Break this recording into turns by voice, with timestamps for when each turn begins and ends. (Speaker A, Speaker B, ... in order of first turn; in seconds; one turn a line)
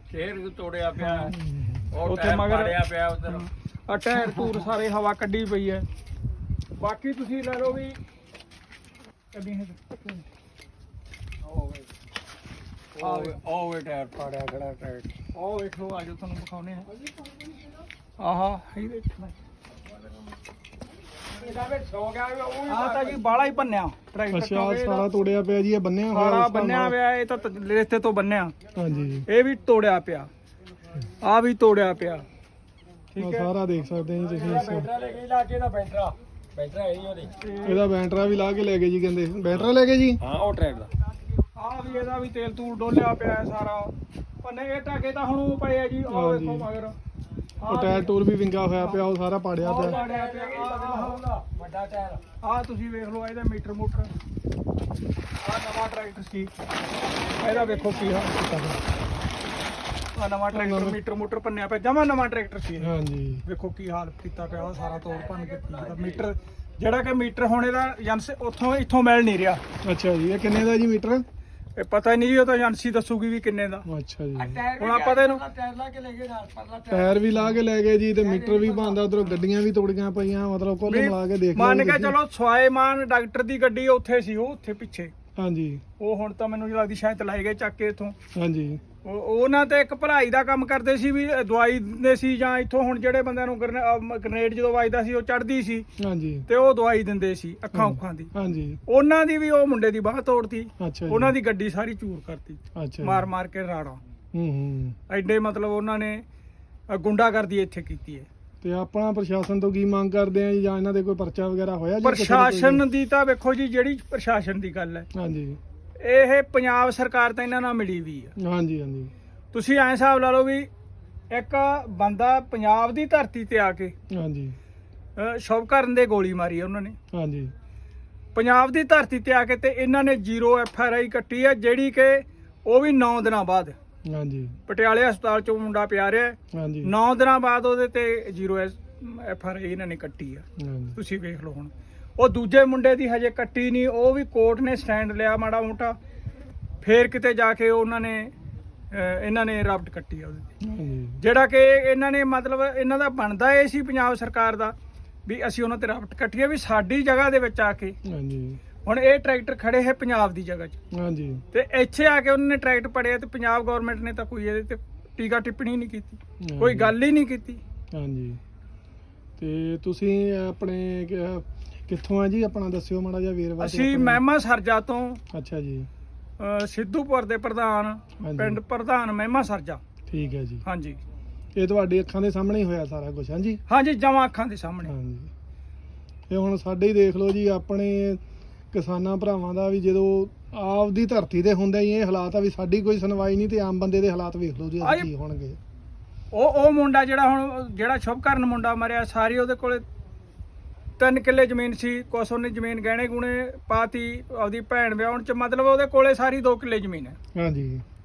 Speaker A: 0.1-1.4
Speaker B: 1.0-1.4
Speaker C: 1.3-1.9
Speaker A: 1.9-3.5
Speaker B: 2.0-5.9
Speaker A: 4.3-4.6
Speaker B: 6.8-8.0
Speaker B: 9.3-10.2
Speaker A: 11.4-11.9
Speaker A: 12.9-15.1
Speaker B: 13.0-13.3
Speaker B: 15.3-16.9
Speaker B: 18.2-19.3
Speaker A: 21.3-23.2
Speaker B: 22.7-25.1
Speaker C: 24.3-27.0
Speaker B: 26.1-28.5
Speaker C: 28.8-29.3
Speaker B: 29.3-30.3
Speaker B: 31.2-32.2
Speaker B: 33.1-33.5
Speaker C: 33.2-34.9
Speaker A: 34.3-37.4
Speaker B: 37.4-37.9
Speaker C: 37.6-40.2
Speaker A: 40.2-40.9
Speaker B: 41.6-47.0
Speaker C: 46.1-46.7
Speaker B: 47.6-48.1
Speaker C: 47.7-50.1
Speaker B: 48.7-49.0
Speaker B: 49.6-51.3
Speaker A: 49.6-52.2
Speaker B: 52.4-54.1
Speaker B: 55.4-56.5
Speaker B: 57.4-58.8
Speaker A: 57.4-57.9
Speaker B: 60.1-69.6
Speaker C: 60.5-61.0
Speaker C: 62.8-63.4
Speaker A: 64.9-66.2
Speaker C: 69.8-71.2
Speaker B: 71.8-73.8
Speaker C: 73.9-74.7
Speaker A: 74.4-77.5
Speaker B: 74.7-75.5
Speaker C: 76.9-82.2
Speaker A: 78.2-79.2
Speaker B: 80.9-85.1
Speaker C: 85.4-85.8
Speaker B: 86.0-88.2
Speaker C: 88.3-88.8
Speaker B: 89.0-95.9
Speaker C: 96.0-96.5
Speaker B: 96.5-98.3
Speaker C: 97.7-98.8
Speaker B: 98.9-104.0
Speaker C: 100.8-101.4
Speaker C: 102.8-103.3
Speaker C: 104.3-105.0
Speaker B: 105.1-106.2
Speaker B: 106.9-108.3
Speaker C: 108.6-112.8
Speaker B: 112.0-115.1
Speaker C: 115.1-115.6
Speaker B: 116.0-118.3
Speaker C: 118.4-119.1
Speaker B: 119.5-120.7
Speaker B: 121.3-124.0
Speaker C: 124.1-124.6
Speaker B: 125.2-127.0
Speaker C: 127.1-127.5
Speaker B: 128.3-133.8
Speaker C: 134.1-134.6
Speaker B: 134.7-146.0
Speaker C: 136.5-136.9
Speaker C: 140.6-141.0
Speaker B: 146.8-148.3
Speaker B: 148.9-150.5
Speaker C: 150.6-151.2
Speaker B: 151.2-154.7
Speaker B: 155.3-158.0
Speaker C: 158.1-158.6
Speaker B: 158.8-160.8
Speaker C: 160.9-161.4
Speaker B: 161.5-167.6
Speaker C: 166.4-166.9
Speaker C: 167.9-168.4
Speaker C: 169.4-174.2
Speaker B: 173.6-175.2
Speaker C: 175.3-175.9
Speaker B: 176.4-179.8
Speaker C: 178.2-178.6
Speaker C: 180.1-180.6
Speaker B: 180.6-181.0
Speaker C: 181.6-183.6
Speaker B: 183.7-184.9
Speaker C: 184.8-185.3
Speaker C: 186.3-195.6
Speaker B: 194.8-195.1
Speaker B: 196.3-199.8
Speaker B: 201.0-207.2
Speaker C: 207.3-207.8